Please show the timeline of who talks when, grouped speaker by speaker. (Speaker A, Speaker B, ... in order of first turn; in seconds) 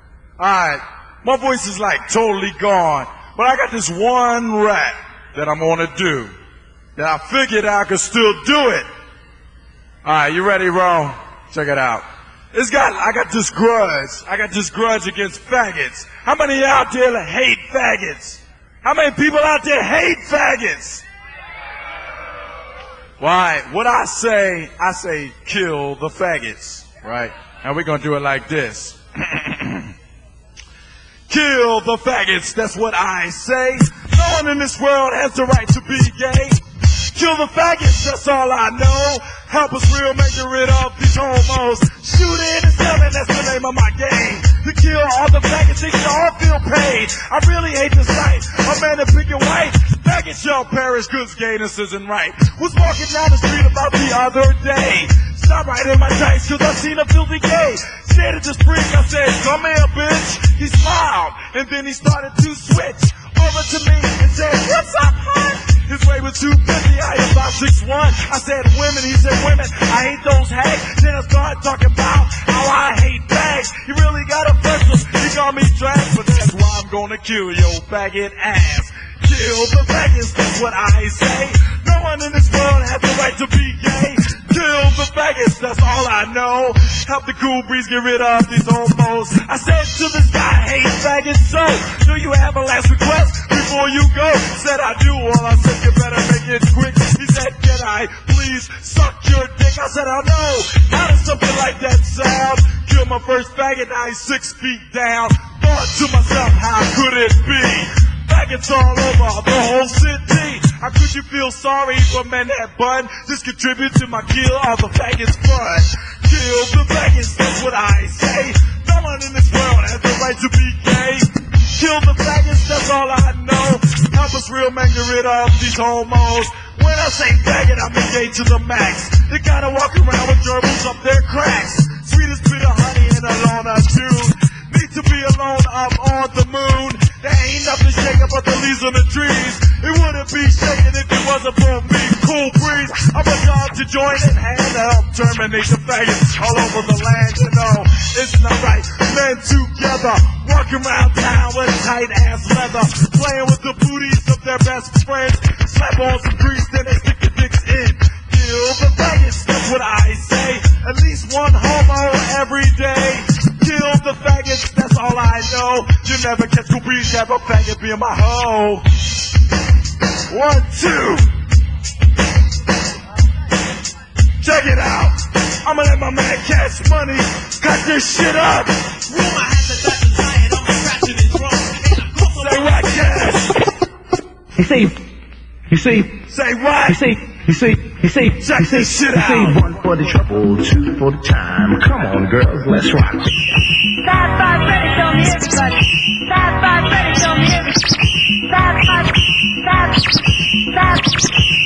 Speaker A: 0.4-6.3, 7.0-8.9, 10.1-21.0, 23.2-29.9, 31.3-36.6, 37.1-168.8, 170.3-171.3, 174.4-178.7, 182.2-183.6, 186.3-187.2, 188.3-189.6
Speaker B: 179.1-182.9
Speaker C: 184.6-184.9, 185.7-186.1, 186.9-193.4
Speaker D: 193.9-201.3